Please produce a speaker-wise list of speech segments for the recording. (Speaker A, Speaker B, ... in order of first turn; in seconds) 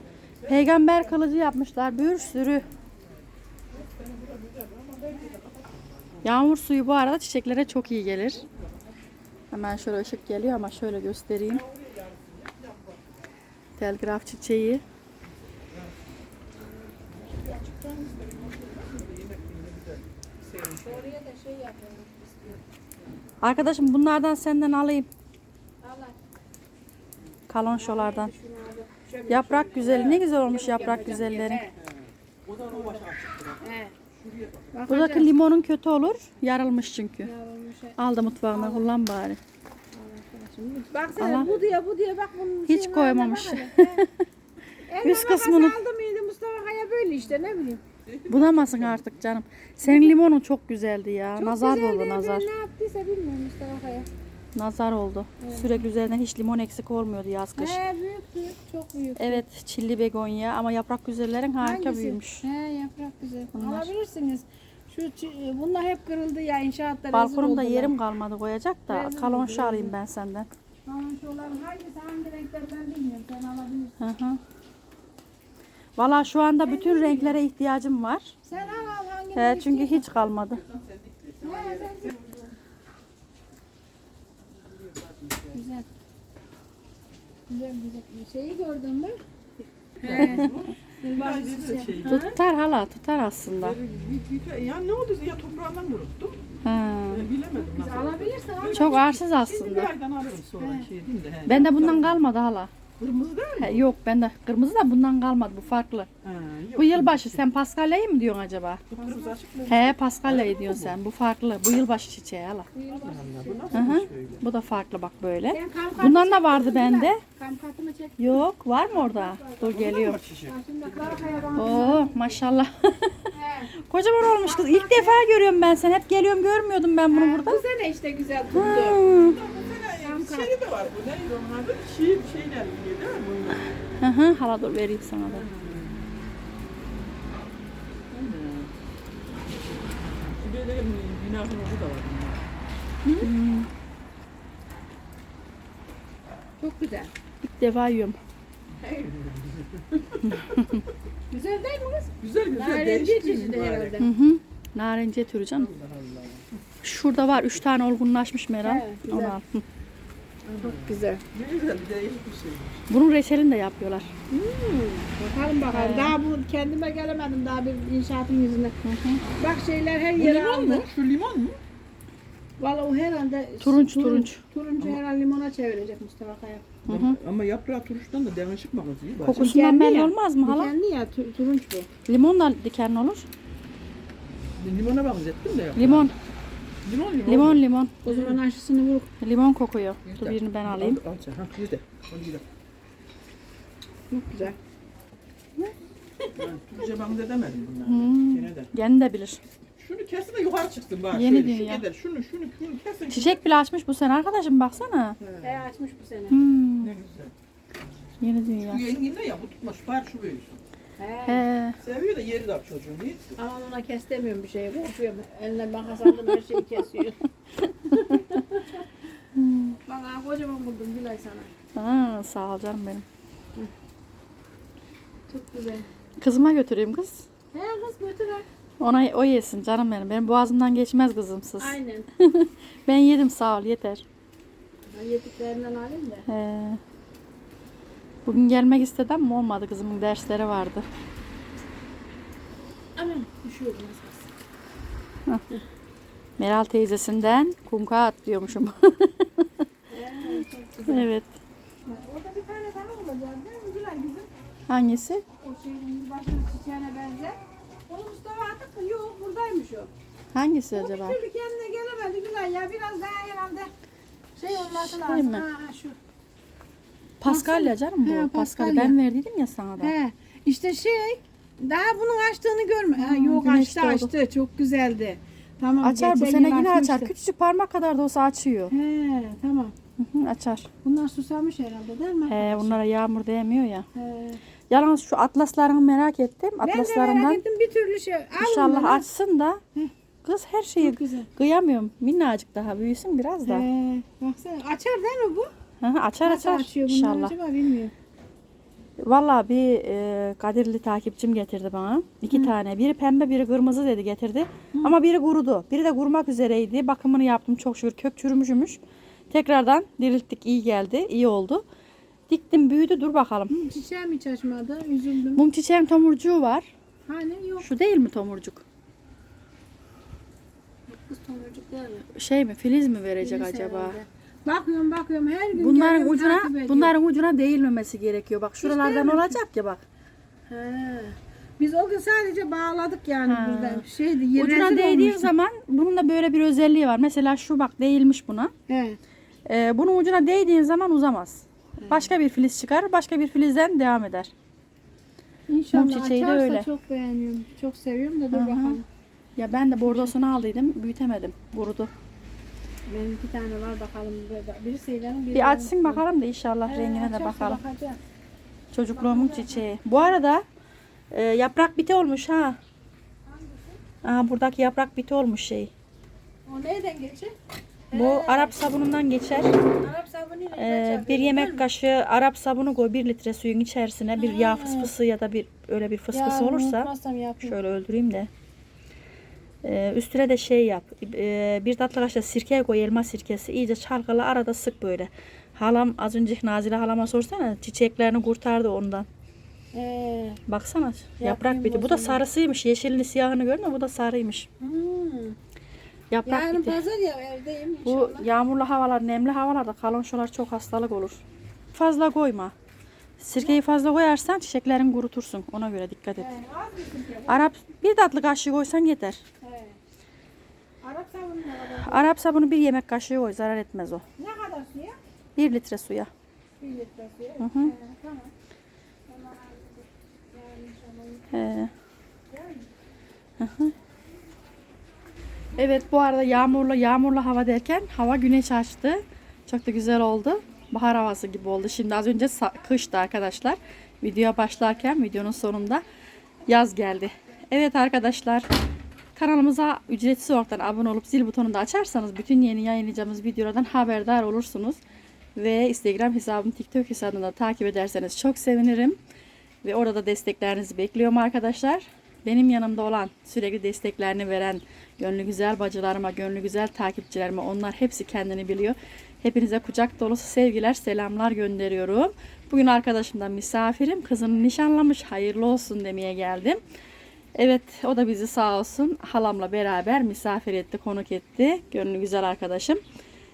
Speaker A: 0.4-2.7, 6.2-8.4, 9.5-11.6, 13.8-14.8, 23.4-25.1, 27.5-28.3, 29.3-31.6, 34.9-37.3, 38.0-39.4, 41.2-41.5, 42.7-44.2, 45.0-45.8, 48.3-52.5, 54.5-57.8, 59.2-62.4, 63.5-63.9, 67.1-70.5, 74.0-74.4, 76.0-78.3, 79.3-80.7, 92.0-93.8, 96.6-97.3, 98.7-99.9, 101.5-102.7, 103.6-106.1, 106.8-108.8, 109.7-112.7, 113.7-117.2, 118.2-120.2, 121.5-123.2, 123.8-127.6, 128.5-129.4, 134.0-135.5, 143.2-143.7, 147.4-148.2, 150.3-150.8, 154.0-155.7, 156.8-159.6, 162.9-164.1, 165.7-166.2, 168.8-169.2, 173.6-174.4, 176.8-177.2, 179.2-180.7, 182.1-183.2, 185.8-186.1, 187.2-187.9, 189.2-191.0, 197.8-199.4, 201.1-201.8, 203.1-205.2, 206.3-206.9, 208.2-208.9, 211.2-211.8, 217.9-218.2, 219.3-219.8, 221.8-223.0, 226.2-227.2, 228.8-234.0, 236.3-236.8, 238.2-240.8, 246.4-249.5, 250.8-251.3, 254.7-255.2, 260.3-261.2, 264.5-265.4, 267.2-269.9, 273.0-274.1, 275.8-278.7, 280.0-280.7, 282.3-283.8, 284.7-287.4, 288.4-289.6, 290.2-293.6, 295.8-297.3, 299.0-311.6, 312.3-313.6, 315.3-316.7, 317.6-318.6, 322.1-324.0, 325.5-329.8, 333.2-338.5, 339.4-344.3, 345.7-346.7, 348.3-348.8, 349.4-351.9, 355.3-357.6, 358.7-360.4, 361.1-362.6, 364.0-365.7, 367.9-369.6, 370.5-376.9, 377.4-378.3, 379.6-389.1, 390.5-394.5, 396.1-396.8, 397.8-401.2, 401.7-402.5, 403.2-406.3, 407.3-409.2, 411.8-414.0, 415.4-416.1, 417.4-417.7, 421.3-421.7, 423.4-423.7, 425.6-435.8, 436.5-438.5, 439.1-444.8, 445.4-449.0, 449.6-466.6, 467.3-472.8
Speaker B: 0.5-0.7, 3.7-6.2, 11.5-13.1, 17.1-21.1, 31.9-34.7, 48.1-49.0, 80.7-82.1, 84.7-85.5, 90.0-92.3, 93.6-96.4, 97.1-102.2, 103.0-103.8, 106.2-107.4, 108.9-111.0, 112.9-114.4, 119.7-121.8, 129.1-133.6, 135.5-136.0, 138.1-138.7, 140.2-142.4, 148.8-150.8, 152.2-154.1, 155.6-156.4, 160.6-162.8, 170.2-171.6, 176.9-179.5, 184.6-186.1, 186.8-188.4, 190.0-192.4, 196.3-198.7, 199.8-203.4, 205.2-205.6, 206.8-207.3, 208.7-210.6, 211.8-213.4
Speaker C: 20.8-22.6, 25.8-26.1, 27.7-31.7, 32.7-33.0, 33.6-33.9, 34.7-35.3, 37.2-38.9, 39.9-44.1, 44.9-47.8, 49.8-50.2, 51.4-54.1, 55.4-55.8, 57.5-59.4, 61.6-67.9, 68.9-69.9, 70.8-74.0, 76.6-77.4, 78.4-80.1, 81.4-82.5, 85.5-85.8, 87.5-89.2, 90.0-92.3, 97.5-99.2, 100.6-100.8, 108.9-109.3, 112.7-114.0, 115.5-122.4, 123.3-123.7, 124.3-125.3, 127.1-129.0, 130.0-130.6, 143.0-143.3, 146.6-147.1, 151.3-154.1, 158.6-159.3, 160.4-161.2, 164.3-168.8, 169.3-170.9, 172.6-176.7, 179.3-181.9, 188.0-189.1, 194.1-194.6, 205.4-206.4, 211.0-211.4, 213.4-217.2, 217.8-218.8, 219.9-221.5, 225.3-225.9, 227.5-228.4, 231.6-232.1, 234.9-236.3, 242.9-244.3, 249.9-251.1, 251.8-254.3, 255.4-259.9, 260.7-263.7, 264.4-266.0, 267.2-269.0, 269.8-277.1, 278.7-279.7, 280.8-282.8, 283.9-284.4, 286.6-289.1, 290.8-291.3, 293.4-295.5, 296.2-297.9, 313.5-315.4, 317.1-317.7, 320.9-322.1, 323.2-326.9, 328.6-329.4, 330.5-335.3, 338.7-339.0, 345.5-348.8, 352.9-356.0, 356.6-358.0, 358.9-359.6, 363.3-363.8, 366.4-367.3, 367.9-368.6, 369.5-371.6, 374.2-374.9, 376.1-377.6, 389.7-390.4, 391.2-392.2, 394.6-395.4, 396.2-398.3, 406.2-407.5, 409.4-409.8, 410.8-412.1, 414.2-415.0, 416.6-418.3, 419.1-421.3, 422.3-422.6